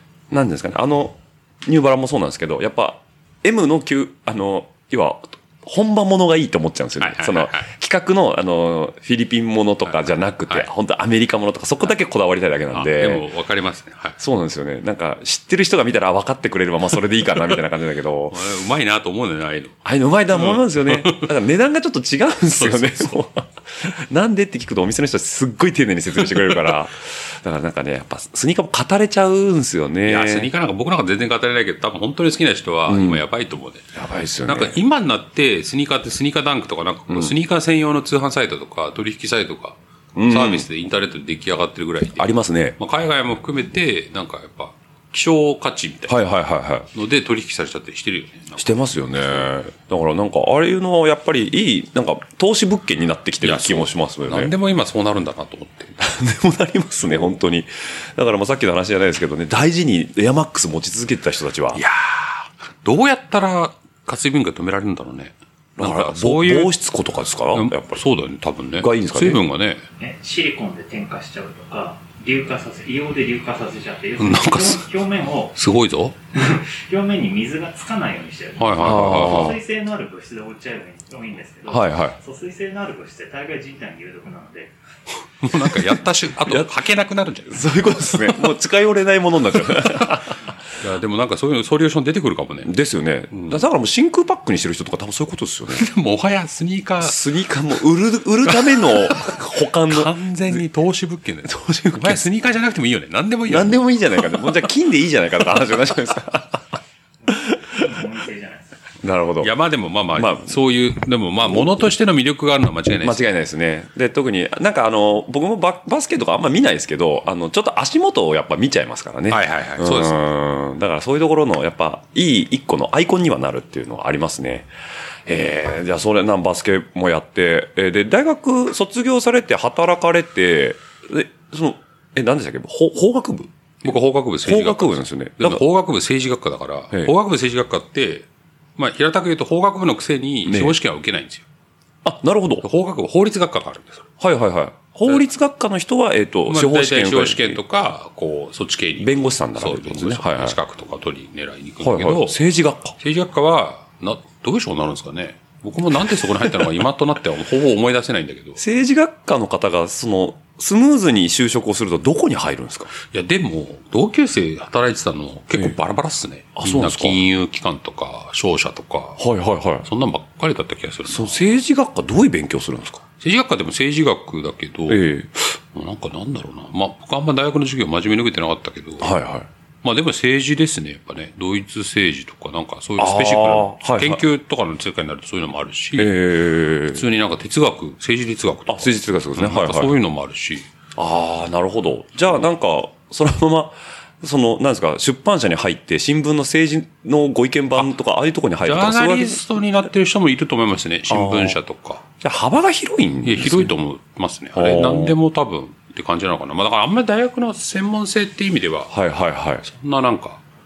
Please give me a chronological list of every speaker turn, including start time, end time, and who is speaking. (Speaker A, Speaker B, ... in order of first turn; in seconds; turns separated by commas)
Speaker A: 0.3-13.2, Speaker B: 7.0-7.7, Speaker B: 9.8-10.7, Speaker B: 12.7-14.2, Speaker A: 14.2-18.4, Speaker B: 18.3-19.8, Speaker A: 19.9-30.5, Speaker B: 20.3-21.3, Speaker B: 22.5-23.2, Speaker B: 30.1-33.9, Speaker A: 32.9-33.2, Speaker A: 33.9-34.8, Speaker B: 34.5-46.2, Speaker A: 40.1-40.7, Speaker A: 42.2-42.8, Speaker A: 46.1-46.9, Speaker B: 46.9-49.5, Speaker A: 48.6-54.5, Speaker B: 53.4-56.0, Speaker A: 56.0-61.8, Speaker B: 61.7-66.8, Speaker A: 65.8-68.0, Speaker B: 67.5-69.8, Speaker A: 68.8-69.4, Speaker C: 70.0-75.6, Speaker B: 74.2-74.9, Speaker B: 75.5-76.2, Speaker C: 76.3-84.7, Speaker B: 78.6-79.6, Speaker A: 78.8-79.6, Speaker A: 81.7-82.2, Speaker B: 85.4-88.5, Speaker A: 85.6-86.7, Speaker A: 87.5-90.3, Speaker B: 89.7-90.2, Speaker B: 90.8-92.7, Speaker A: 92.6-95.9, Speaker B: 93.3-93.6, Speaker B: 95.7-97.2, Speaker A: 97.0-100.2, Speaker B: 98.5-104.5, Speaker A: 101.5-102.3, Speaker A: 103.5-106.6, Speaker C: 107.2-108.8, Speaker A: 107.3-107.9, Speaker A: 109.0-109.5, Speaker B: 109.4-113.2, Speaker A: 110.2-110.6, Speaker A: 111.5-111.9, Speaker A: 113.0-124.7, Speaker B: 119.3-120.2, Speaker A: 125.3-135.6, Speaker B: 133.8-141.5, Speaker A: 140.5-140.8, Speaker A: 142.0-142.7, Speaker B: 142.6-144.1, Speaker A: 144.2-147.6, Speaker B: 146.5-152.4, Speaker A: 149.0-150.6, Speaker A: 151.8-153.0, Speaker B: 153.0-158.6, Speaker A: 158.6-162.9, Speaker B: 163.0-169.2, Speaker A: 166.6-167.2, Speaker A: 169.2-169.9, Speaker B: 169.8-171.4, Speaker A: 171.1-173.0, Speaker B: 173.2-179.1, Speaker A: 174.9-175.3, Speaker A: 179.0-179.5, Speaker B: 179.8-186.2, Speaker A: 183.0-184.2, Speaker A: 186.0-187.0, Speaker B: 186.9-190.7, Speaker A: 188.7-190.0, Speaker A: 191.0-199.4, Speaker B: 198.6-202.0, Speaker A: 201.1-201.6, Speaker A: 202.2-203.7, Speaker B: 203.2-208.9, Speaker A: 204.6-205.2, Speaker A: 208.9-209.6, Speaker B: 209.6-210.4